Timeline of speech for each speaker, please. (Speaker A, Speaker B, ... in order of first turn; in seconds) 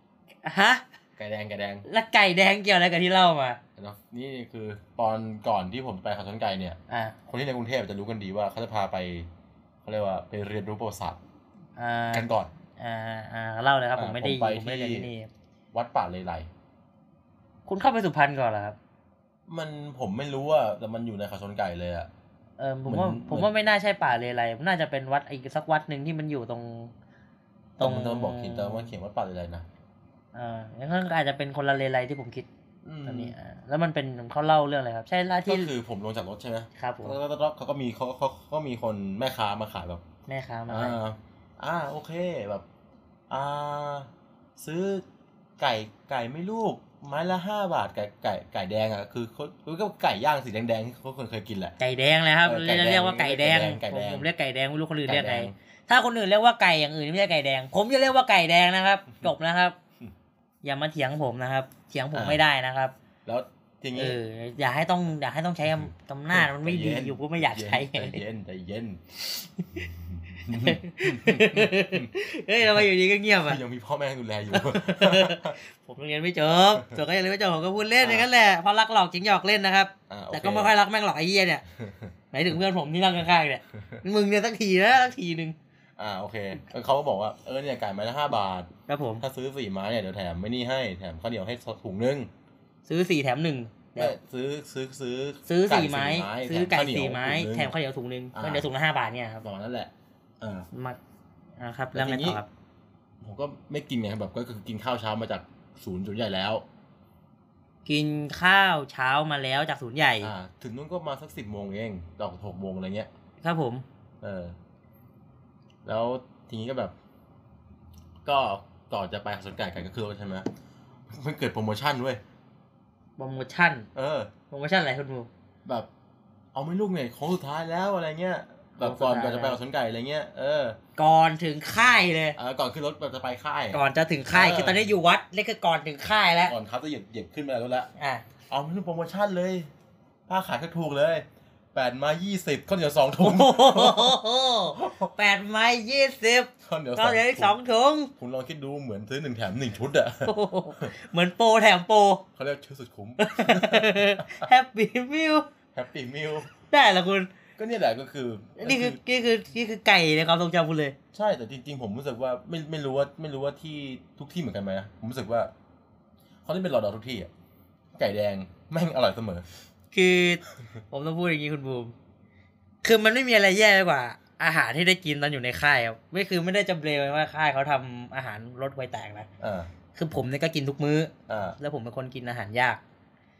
Speaker A: 0.4-0.8, 1.9-3.6, 6.9-7.2, 11.8-15.3, 17.7-18.8, 22.6-26.9, 27.8-28.9, 30.3-32.5, 33.0-35.7, 36.8-37.2, 40.3-41.0, 51.8-59.8, 60.6-62.9, 63.9-68.2, 70.5-73.6, 74.5-81.6, 82.3-85.5, 88.9-89.2, 92.8-94.2, 95.5-99.4, 100.7-101.0, 101.6-102.5, 107.8-110.3, 113.4-113.8, 123.2-123.9, 124.5-125.3, 128.8-129.6, 131.0-132.4, 133.7-136.5, 138.0-138.2, 143.2-148.1, 150.2-152.2, 153.2-155.4, 156.6-157.3, 158.6-160.9, 169.9-171.9, 172.8-179.3, 179.9-182.8
Speaker B: 1.2-1.8, 3.8-9.3, 9.8-11.2, 12.1-12.5, 13.9-15.1, 15.7-16.5, 19.5-22.1, 22.9-23.5, 27.8-29.6, 32.8-33.3, 35.5-40.0, 40.7-42.6, 43.3-45.0, 45.6-51.8, 52.4-54.3, 55.0-55.5, 62.1-62.4, 63.2-64.2, 65.7-69.0, 69.7-72.1, 73.4-75.5, 76.7-77.0, 78.0-78.3, 80.1-80.7, 81.8-82.1, 86.0-92.3, 94.0-97.7, 98.3-98.7, 99.4-100.7, 101.9-102.4, 103.2-106.6, 110.2-113.1, 114.2-114.5, 115.8-116.9, 118.2-120.5, 121.1-122.2, 123.9-124.3, 126.5-130.8, 132.4-134.9, 136.5-137.9, 138.5-139.7, 140.3-144.2, 144.7-145.1, 146.6-147.6, 148.2-150.9, 152.3-154.5, 155.7-156.5, 157.6-159.0, 161.1-165.5, 166.4-167.3, 167.9-169.5, 179.4-179.7, 181.3-181.6